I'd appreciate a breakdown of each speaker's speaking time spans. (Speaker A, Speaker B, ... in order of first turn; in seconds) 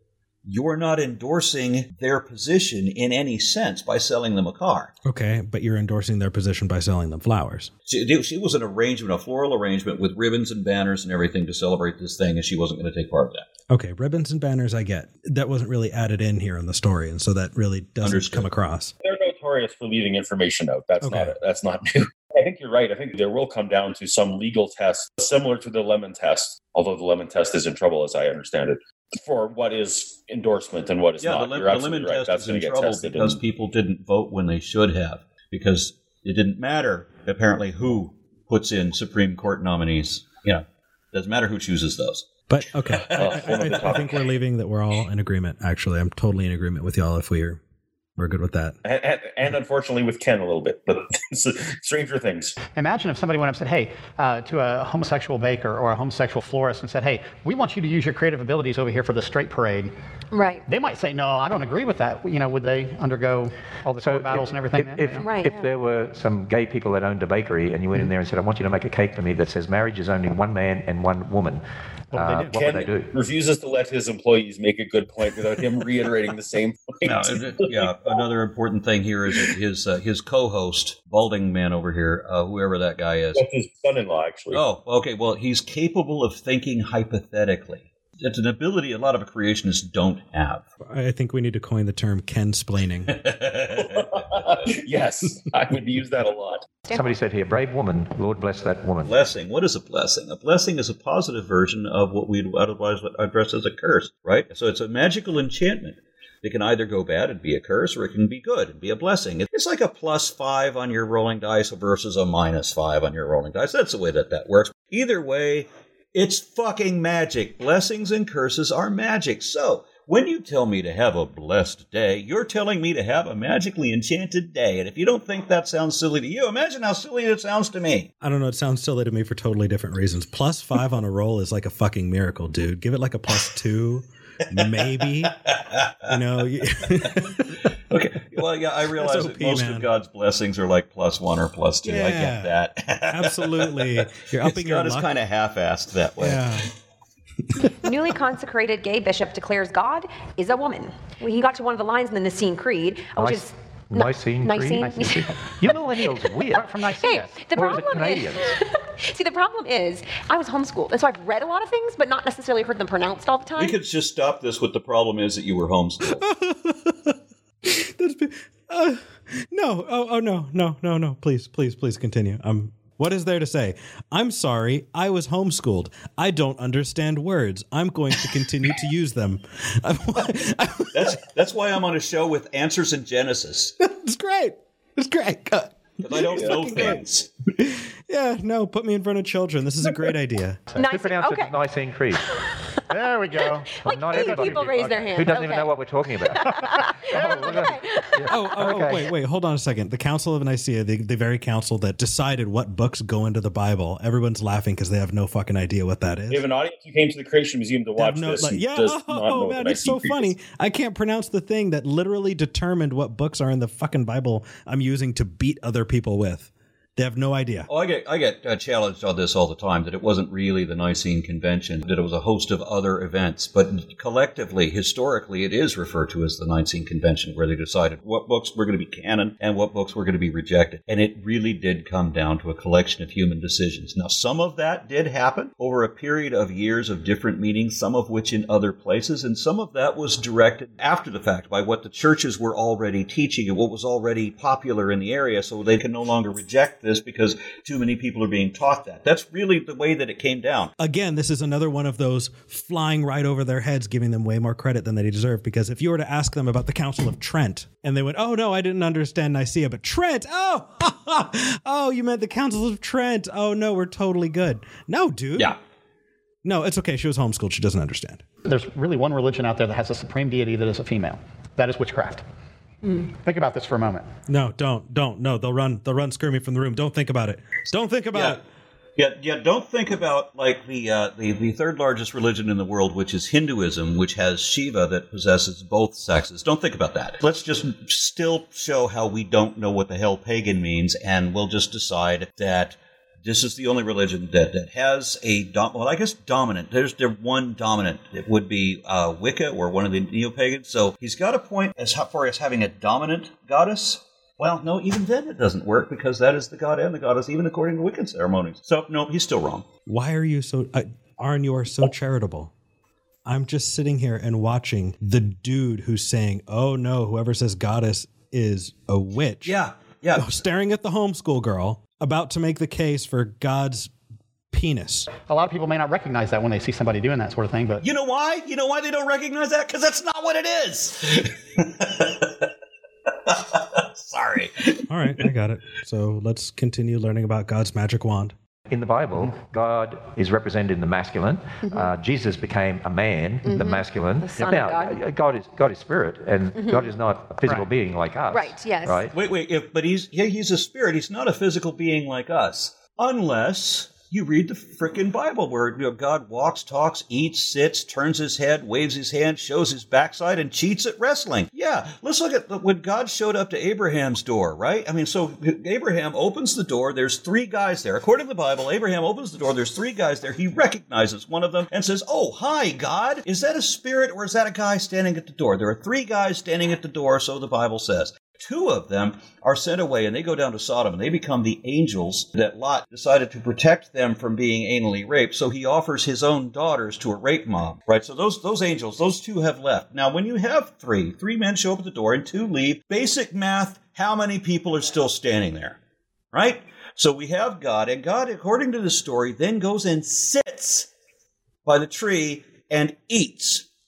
Speaker A: 0.5-4.9, 7.8-13.5, 18.0-18.5, 31.2-42.3, 43.0-43.9, 77.0-83.4, 84.5-90.6, 93.1-94.6, 99.0-128.1, 135.5-136.1, 137.9-146.5, 163.6-166.2, 180.9-183.7, 186.0-187.3, 217.7-250.7, 278.1-278.4, 279.0-309.6, 319.4-320.3, 327.8-332.4, 333.3-335.1, 349.1-395.8, 396.3-400.9, 401.6-403.6
Speaker B: 5.0-7.7, 13.7-18.9, 21.0-21.3, 42.5-47.6, 48.2-48.8, 90.9-93.1, 128.2-135.4, 136.1-137.6, 138.9-139.9, 141.8-142.5, 143.1-145.1, 146.2-146.7, 166.2-181.2, 183.8-187.0, 187.6-190.6, 198.3-206.4, 208.0-217.7, 250.8-265.5, 266.4-268.2, 274.3-278.4, 309.9-312.5, 313.2-319.5, 320.1-323.9, 324.5-325.1, 334.9-338.3
Speaker C: 19.0-33.4, 43.1-44.1, 48.8-52.6, 72.5-78.1, 83.3-84.6, 93.8-96.7, 186.3-187.0, 206.3-210.3
Speaker D: 52.7-59.9, 60.7-65.3, 72.1-72.6, 154.8-155.4, 156.4-157.4, 192.9-194.9, 197.1-197.7, 268.4-272.2, 273.1-274.1, 325.2-327.8
Speaker E: 60.3-60.6, 65.2-65.7, 96.8-97.1, 147.8-155.4, 157.0-163.8, 190.8-191.5, 192.2-192.6, 193.4-195.7, 196.4-198.4, 341.6-341.9, 343.4-345.0, 346.5-346.9, 348.3-349.1
Speaker F: 64.0-71.6, 72.1-73.1, 96.9-99.1, 153.2-156.7, 157.5-158.5, 190.8-192.2, 193.8-199.1, 338.7-349.1